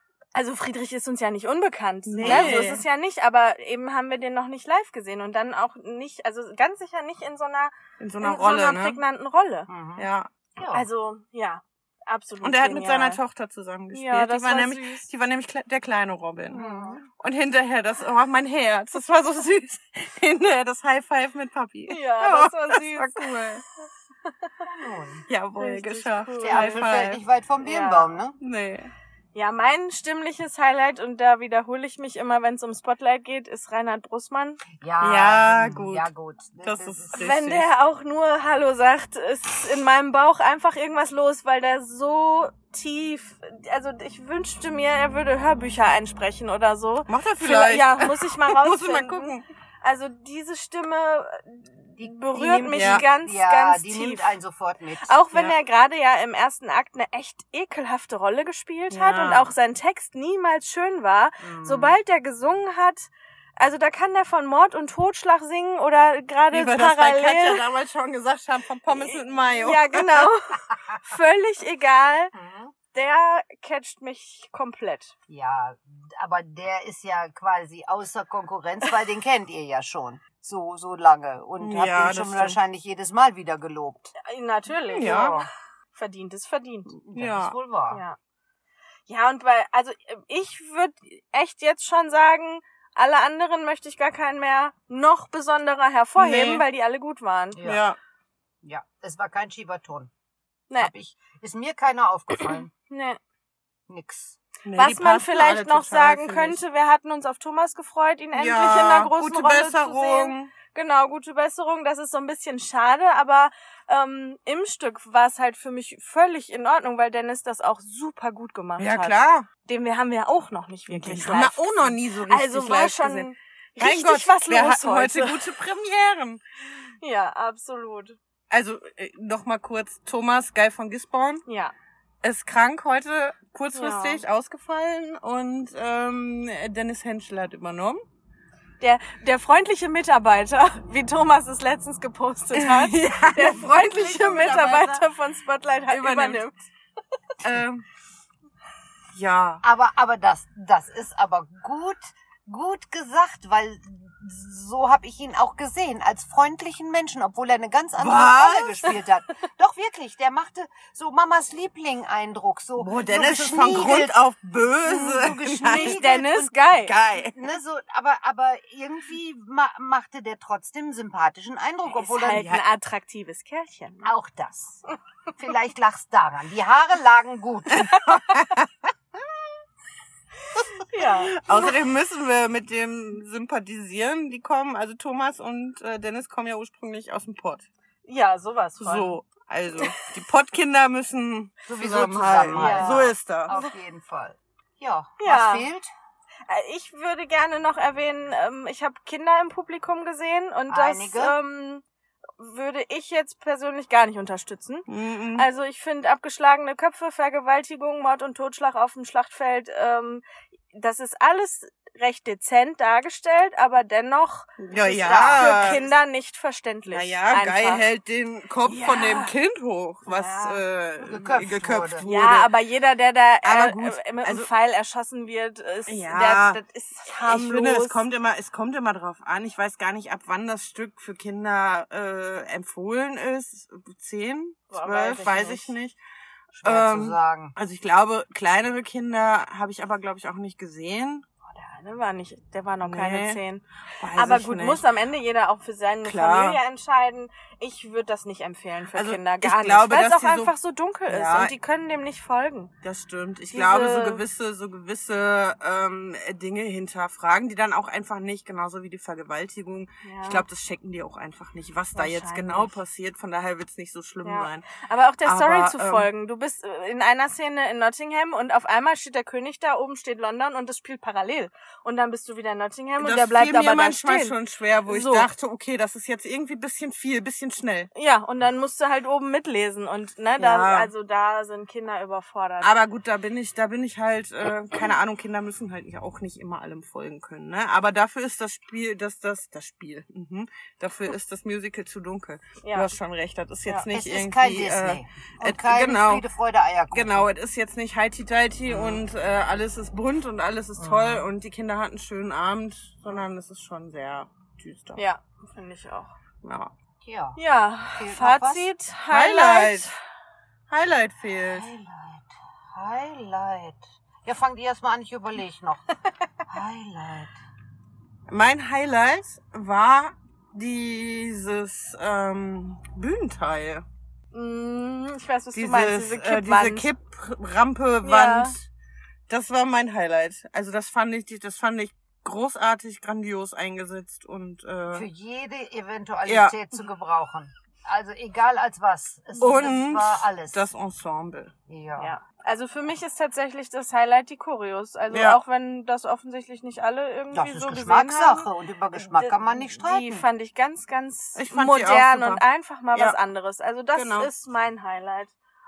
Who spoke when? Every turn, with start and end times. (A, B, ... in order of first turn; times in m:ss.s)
0:00.3-0:09.7 A
0:02.1-0:02.8 B
0:02.2-0:02.7 C
0:08.0-0:09.0 B
0:09.7-0:10.9 C
0:10.0-0:10.3 B
0:10.7-0:13.2 A
0:12.4-0:23.6 B
0:13.9-0:15.1 A
0:16.5-0:17.0 C
0:21.9-0:23.3 A
0:24.2-0:24.5 A
0:24.6-0:25.2 C
0:25.3-0:27.2 B
0:25.6-0:26.8 A
0:26.4-0:28.4 C
0:27.6-0:28.1 A
0:28.4-0:28.9 B
0:29.3-0:34.6 A
0:34.8-0:37.2 C
0:35.0-0:36.1 B
0:36.6-0:37.7 B
0:37.1-0:54.3 A
0:47.1-0:49.4 B
0:52.0-0:55.2 C
0:52.7-0:53.0 B
0:55.0-1:07.6 A
0:58.9-0:59.5 B
1:01.4-1:02.0 C
1:06.5-1:10.3 B
1:08.9-1:12.3 A
1:12.3-1:12.7 C
1:12.9-1:15.1 A
1:15.3-1:24.1 C
1:21.6-1:22.6 B
1:24.2-1:25.4 A
1:24.9-1:25.5 B
1:24.9-1:25.5 C
1:25.9-1:26.9 A
1:26.9-1:27.5 B
1:27.1-1:28.0 C
1:27.9-1:28.2 A
1:29.1-1:37.6 A
1:36.2-1:36.6 B
1:37.5-1:37.8 C
1:37.6-1:38.0 B
1:38.6-1:40.1 C
1:40.8-1:42.7 C
1:42.4-1:43.2 A
1:43.9-1:44.4 C
1:44.6-1:46.6 B
1:44.8-2:05.4 A
1:48.3-1:50.5 B
1:58.8-1:59.5 B
2:00.9-2:06.4 B
2:07.0-2:08.2 A
2:08.5-2:11.4 B
2:11.4-2:11.7 A
2:12.2-2:18.0 B
2:13.7-2:14.2 A
2:18.8-2:26.6 A
2:22.5-2:25.0 B
2:25.9-2:26.5 B
2:27.4-2:27.8 B
2:29.1-2:29.6 B
2:29.6-2:44.2 C
2:38.0-2:39.0 B
2:42.8-2:46.0 B
2:44.8-2:46.6 C
2:45.6-2:46.9 A
2:46.7-2:47.4 B
2:47.1-2:52.6 C
2:51.9-2:54.1 A
2:52.3-2:52.6 B
2:54.0-2:54.8 C
2:55.4-2:58.1 C
2:57.8-2:58.7 B
3:00.7-3:01.6 A
3:00.9-3:07.6 B
3:08.0-3:09.1 A
3:08.8-3:13.6 B
3:11.7-3:15.9 C
3:12.5-3:13.1 A
3:15.2-3:15.6 A
3:16.5-3:21.8 A
3:20.7-3:21.4 C
3:22.4-3:34.6 A
3:24.9-3:25.5 B
3:34.6-3:35.8 B
3:34.8-3:35.9 C
3:35.3-3:37.8 A
3:36.9-3:42.5 B
3:38.6-3:39.3 A
3:40.0-3:40.6 A
3:41.0-3:42.1 C
3:42.0-3:48.0 A
3:43.4-3:44.5 B
3:45.9-3:56.0 B
3:54.7-3:55.7 A
3:56.5-3:57.6 C
3:56.6-4:01.2 B
4:01.5-4:12.7 A
4:02.8-4:03.4 B
4:04.0-4:04.8 B
4:06.0-4:06.6 B
4:08.9-4:10.5 B
4:11.1-4:11.5 B
4:12.8-4:24.6 B
4:13.5-4:14.2 A
4:20.0-4:20.4 A
4:21.9-4:22.8 A
4:24.2-4:34.4 A
4:25.2-4:26.1 B
4:33.0-4:37.9 B
4:34.9-4:35.3 A
4:37.9-4:42.7 A
4:40.4-4:40.9 B
4:42.6-4:56.2 B
4:52.6-4:52.9 A
4:53.9-4:57.3 C
4:56.9-5:05.0 B
4:58.7-4:59.0 C
5:00.8-5:01.3 C
5:05.0-5:06.1 A
5:06.4-5:06.7 B
5:07.0-5:07.4 C
5:07.4-5:10.0 A
5:07.9-5:08.7 C
5:09.1-5:09.9 B
5:10.7-5:11.7 B
5:11.5-5:15.8 C
5:16.4-5:17.4 C
5:18.3-5:23.8 B
5:24.3-5:26.9 A
5:25.5-5:28.7 B
5:28.0-5:28.5 A
5:29.3-5:35.1 B
5:34.9-5:40.6 C
5:36.3-5:36.5 B
5:39.4-5:41.5 B
5:41.7-5:42.2 C
5:42.0-5:55.3 A
5:45.1-5:45.4 B
5:47.3-5:50.2 C
5:51.4-5:53.2 B
5:53.9-5:54.3 B